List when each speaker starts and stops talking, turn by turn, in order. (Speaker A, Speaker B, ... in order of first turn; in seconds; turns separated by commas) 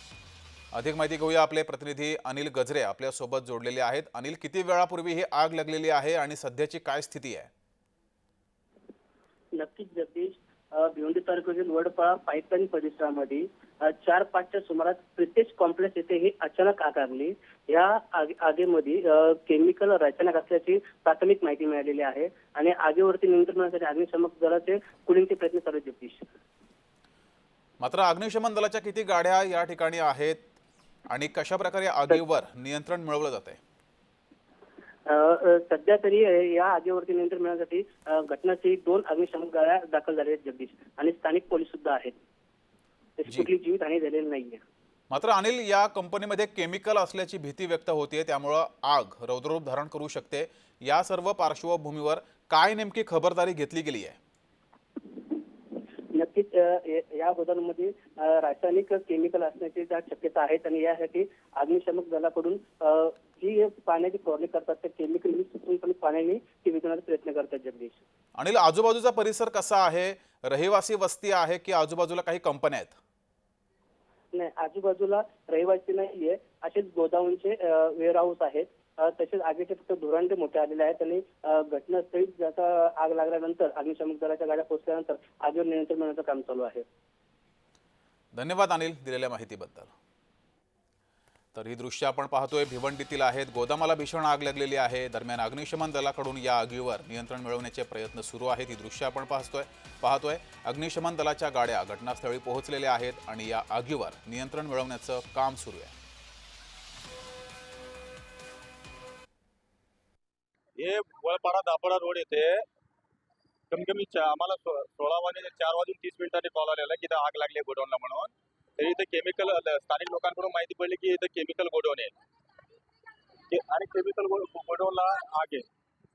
Speaker A: 0.7-7.5, Speaker B: 9.6-26.3, Speaker A: 27.8-30.4, Speaker A: 31.1-33.6, Speaker B: 35.0-42.1, Speaker B: 43.2-44.6, Speaker A: 45.1-54.2, Speaker B: 56.1-68.0, Speaker A: 68.4-73.0, Speaker B: 74.3-86.8, Speaker A: 88.3-89.9, Speaker A: 91.5-105.9, Speaker C: 110.8-112.6, Speaker C: 113.7-122.1, Speaker C: 123.5-125.7